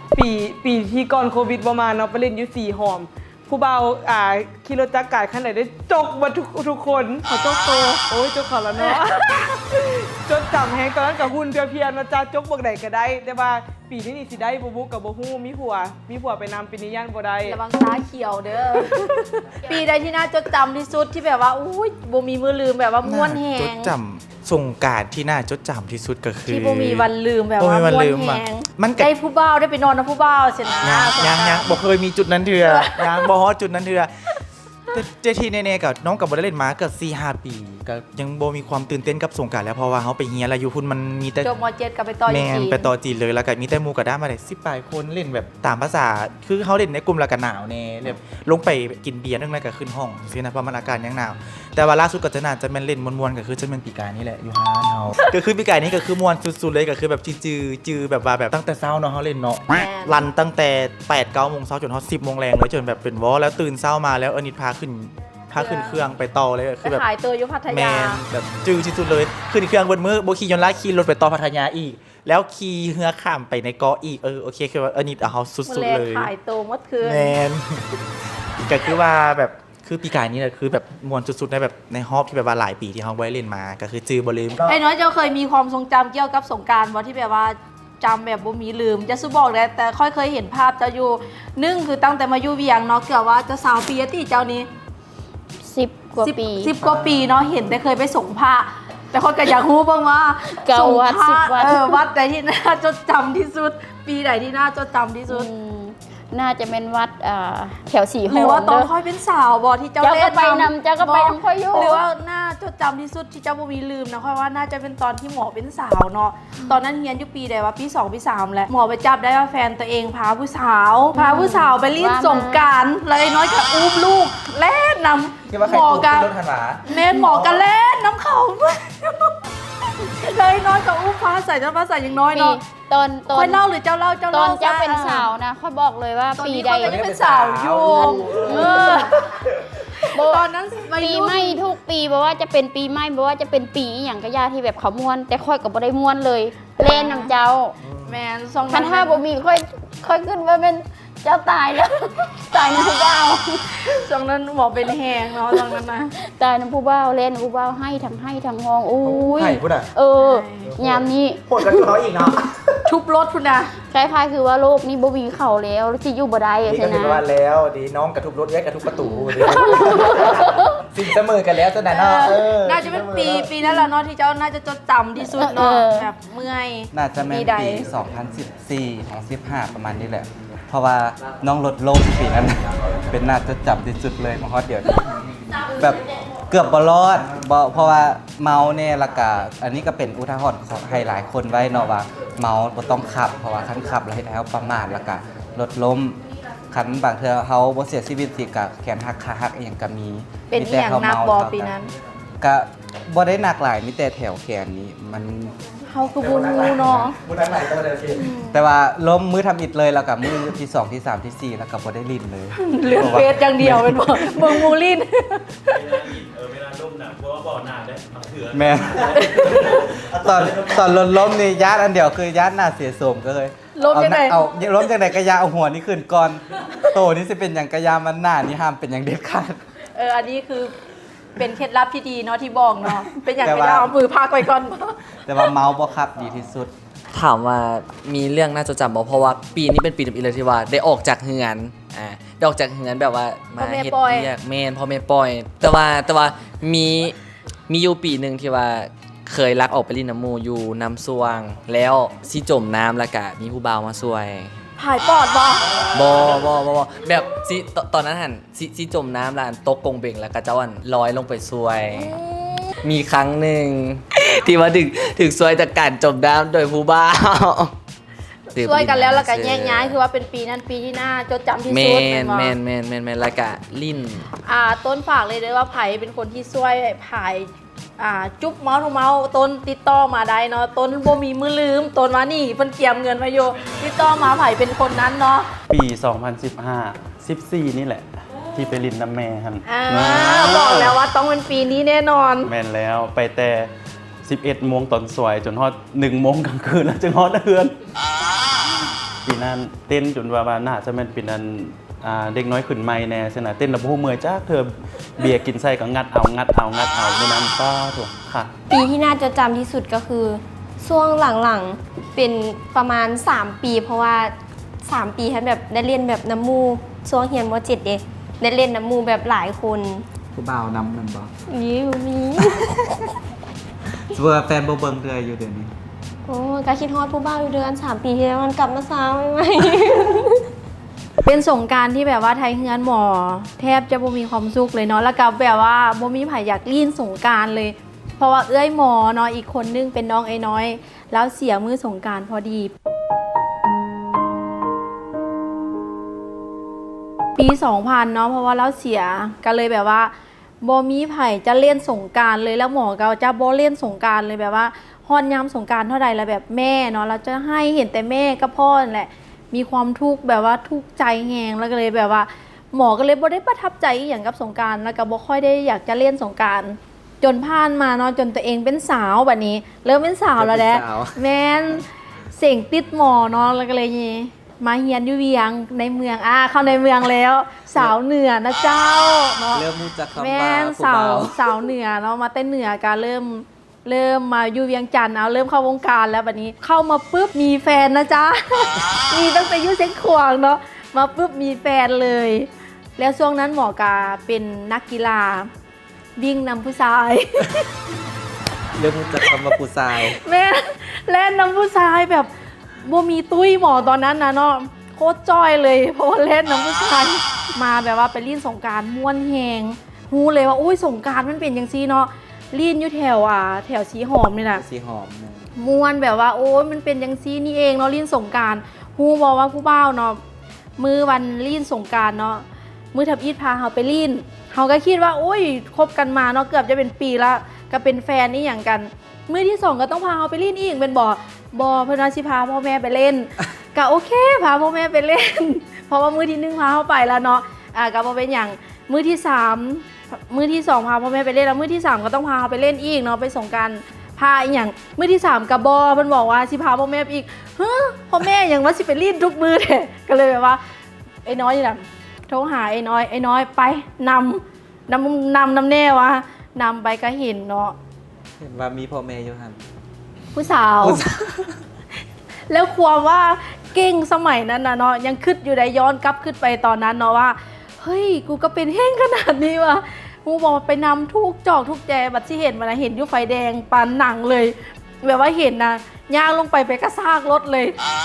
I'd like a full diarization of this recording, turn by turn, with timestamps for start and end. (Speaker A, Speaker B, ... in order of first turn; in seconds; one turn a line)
Speaker A: 0.1-7.2
Speaker B: 7.3-8.0
Speaker A: 8.1-17.6
Speaker B: 8.8-9.0
Speaker B: 17.4-23.9
Speaker C: 23.0-29.1
Speaker B: 26.4-31.7
Speaker C: 30.8-34.1
Speaker B: 32.6-33.3
Speaker C: 34.9-41.5
Speaker B: 41.4-42.9
Speaker C: 42.2-67.0
Speaker B: 59.7-60.3
Speaker B: 65.5-66.1
Speaker B: 66.8-68.2
Speaker C: 67.7-76.3
Speaker B: 75.7-77.4
Speaker C: 77.0-77.6
Speaker C: 78.7-84.8
Speaker B: 84.6-94.7
Speaker D: 95.7-96.7
Speaker B: 96.2-105.5
Speaker D: 100.6-102.0
Speaker D: 105.3-108.9
Speaker B: 108.2-126.3
Speaker D: 110.0-112.0
Speaker D: 121.1-122.7
Speaker C: 125.5-127.6
Speaker B: 126.8-129.5
Speaker B: 130.0-132.6
Speaker D: 132.3-133.6
Speaker B: 133.3-135.3
Speaker D: 134.3-137.0
Speaker B: 136.3-141.7
Speaker E: 136.8-138.0
Speaker D: 137.8-139.1
Speaker C: 138.0-138.8
Speaker D: 140.1-140.4
Speaker D: 141.0-147.7
Speaker B: 146.8-147.3
Speaker C: 147.8-148.1
Speaker B: 148.1-149.2
Speaker D: 148.7-153.6
Speaker B: 153.8-156.1
Speaker D: 155.5-161.4
Speaker C: 159.0-159.9
Speaker B: 160.2-160.7
Speaker C: 160.6-162.8
Speaker B: 162.9-163.7
Speaker D: 163.9-167.2
Speaker C: 166.6-173.5
Speaker D: 169.1-169.8
Speaker B: 169.5-170.4
Speaker B: 171.9-177.9
Speaker D: 175.2-176.1
Speaker E: 176.9-201.8
Speaker B: 200.5-201.9
Speaker E: 202.4-205.6
Speaker B: 205.9-207.2
Speaker C: 206.1-208.2
Speaker B: 208.2-208.6
Speaker E: 208.4-212.6
Speaker B: 212.6-216.0
Speaker F: 212.8-213.6
Speaker C: 213.6-214.0
Speaker F: 215.7-219.6
Speaker E: 218.5-229.6
Speaker B: 223.8-224.5
Speaker B: 229.9-230.7
Speaker B: 231.4-235.1
Speaker E: 233.4-233.9
Speaker E: 235.2-236.7
Speaker G: 237.1-247.2
Speaker B: 243.6-244.3
Speaker G: 247.7-254.5
Speaker B: 254.8-255.7
Speaker G: 255.9-262.1
Speaker B: 261.9-262.7
Speaker G: 262.8-267.7
Speaker B: 268.5-272.5
Speaker G: 268.5-269.9
Speaker G: 271.7-274.3
Speaker B: 274.4-285.5
Speaker F: 285.7-291.0
Speaker B: 289.6-292.5
Speaker F: 292.4-293.7
Speaker F: 294.2-297.8
Speaker F: 299.2-308.5
Speaker H: 308.7-320.0
Speaker E: 320.3-321.3
Speaker E: 324.1-325.7
Speaker H: 326.2-330.4
Speaker B: 331.2-342.7
Speaker B: 347.4-395.5
Speaker E: 370.4-371.2
Speaker E: 379.5-381.6
Speaker B: 396.2-397.6
Speaker E: 398.7-400.2
Speaker B: 400.1-402.3
Speaker B: 402.8-414.6
Speaker E: 414.5-415.5
Speaker B: 415.6-420.2
Speaker B: 420.8-450.6
Speaker B: 451.2-457.7
Speaker E: 458.4-459.6
Speaker B: 460.3-461.0
Speaker E: 460.8-461.5
Speaker B: 462.5-477.8